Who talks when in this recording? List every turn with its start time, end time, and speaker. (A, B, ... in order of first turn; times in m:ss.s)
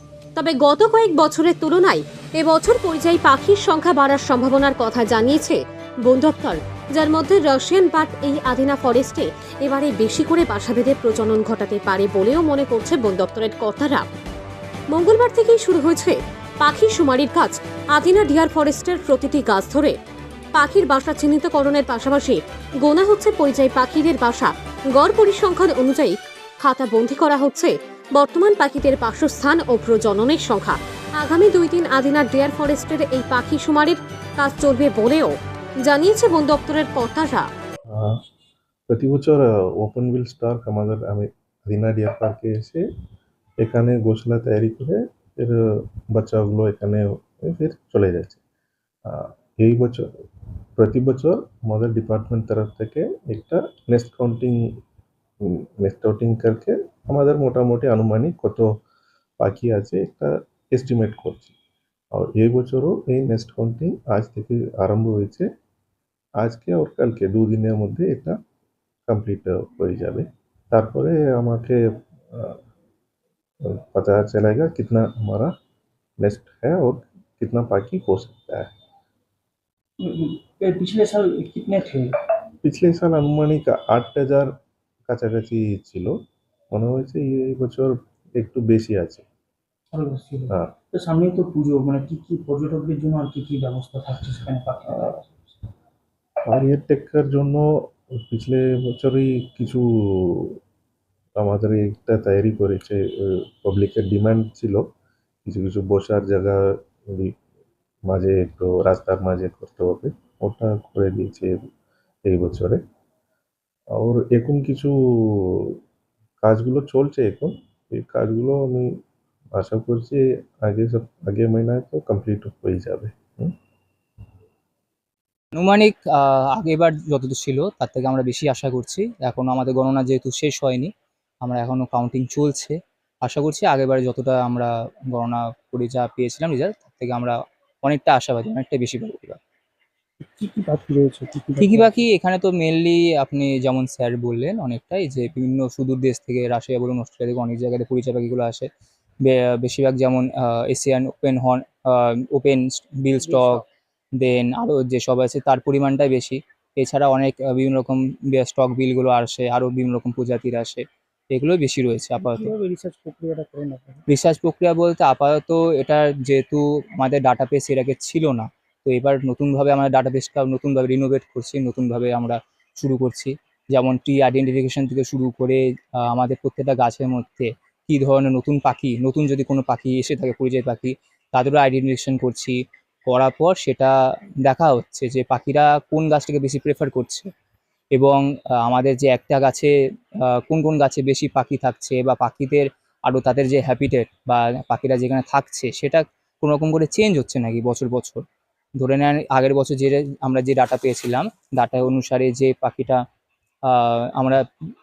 0:00.4-0:14.0 A
0:14.9-0:19.9 A
0:20.5-0:37.5 A
0:37.9-0:38.2 B
0:38.9-0:42.8 B
0:43.6-0:48.4 B
0:49.0-0:50.1 B
0:50.8-0:54.6 B
0:55.4-0:58.6 B
0:59.4-1:01.5 B
1:02.1-1:05.5 B
1:06.4-1:08.4 B
1:09.1-1:12.6 B
1:13.6-1:15.5 B
1:16.2-1:18.7 B
1:20.0-1:22.2 C
1:22.6-1:24.5 B
1:25.1-1:26.1 B
1:26.7-1:29.2 B
1:29.9-1:35.4 C
1:36.5-1:37.6 B
1:38.3-1:40.6 B
1:41.4-1:44.8 B
1:45.4-1:47.3 B
1:48.1-1:51.6 B
1:52.2-1:52.8 B
1:53.9-1:55.8 B
1:56.4-1:58.9 B
1:59.6-2:03.5 B
2:05.5-2:10.9 D
2:11.4-2:19.4 D
2:20.2-2:22.0 C
2:21.6-2:28.7 D
2:29.2-2:33.6 D
2:33.2-2:33.6 C
2:34.2-2:42.5 D
2:42.2-2:44.0 C
2:44.1-3:03.9 D
3:04.4-3:07.3 D
3:07.9-3:09.7 D
3:10.2-3:18.2 D
3:18.8-3:23.0 D
3:23.7-3:24.4 D